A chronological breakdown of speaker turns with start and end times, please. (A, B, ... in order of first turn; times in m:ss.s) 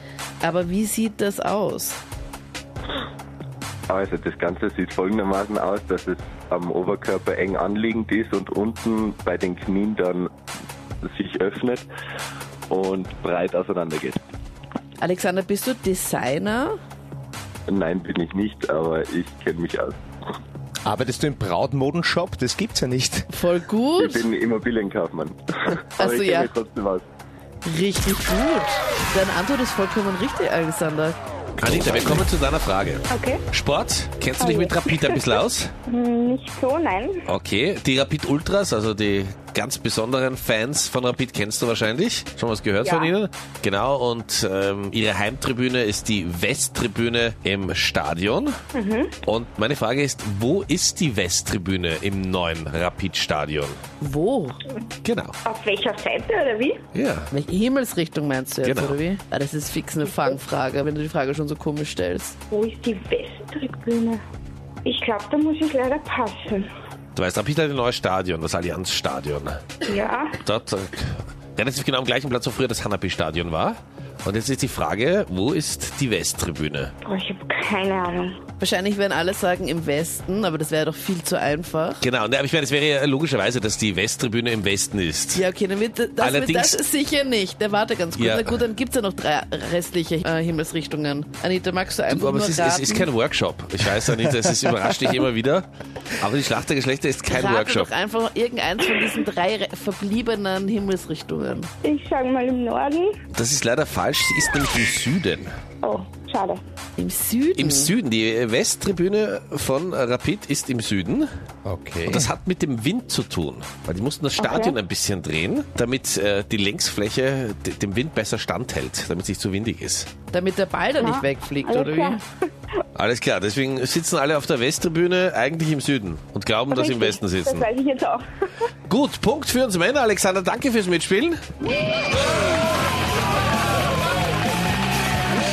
0:00.4-0:02.0 A
0:03.9-0:10.3 B
0:11.0-0:11.8 B
0:12.7-0:14.2 B
0:15.0-0:16.8 A
0:17.7-0:20.0 B
0:20.8-0:23.3 C
0:23.3-0:24.2 A
0:24.0-0:27.0 B
0:26.0-0:26.5 A
0:27.6-0:31.2 A
0:31.6-0:35.7 D
0:33.1-0:33.4 E
0:34.4-0:35.2 E
0:35.9-0:37.2 E
0:37.3-0:48.5 D
0:42.8-0:43.1 E
0:48.7-0:49.2 E
0:49.2-0:53.8 D
0:54.0-0:54.6 A
0:55.0-0:55.3 D
0:55.4-0:56.8 E
0:56.9-0:57.3 D
0:57.3-1:02.4 A
0:58.6-0:59.0 D
1:02.5-1:04.2 E
1:04.8-1:06.7 E
1:07.1-1:09.6 D
1:09.9-1:10.4 E
1:10.4-1:16.9 D
1:17.0-1:18.4 E
1:18.6-1:22.0 A
1:22.0-1:25.4 D
1:25.3-1:33.1 A
1:26.2-1:26.8 D
1:28.2-1:28.6 D
1:32.1-1:35.6 D
1:36.2-1:37.9 D
1:37.3-1:41.7 A
1:41.8-1:43.1 E
1:43.3-1:45.5 D
1:45.8-1:46.6 E
1:47.0-1:47.9 A
1:47.6-1:51.3 D
1:51.6-1:52.3 C
1:52.0-2:00.1 D
1:54.4-1:54.8 E
2:00.3-2:02.2 A
2:01.0-2:02.2 E
2:02.9-2:07.6 D
2:06.7-2:08.2 E
2:08.9-2:11.4 D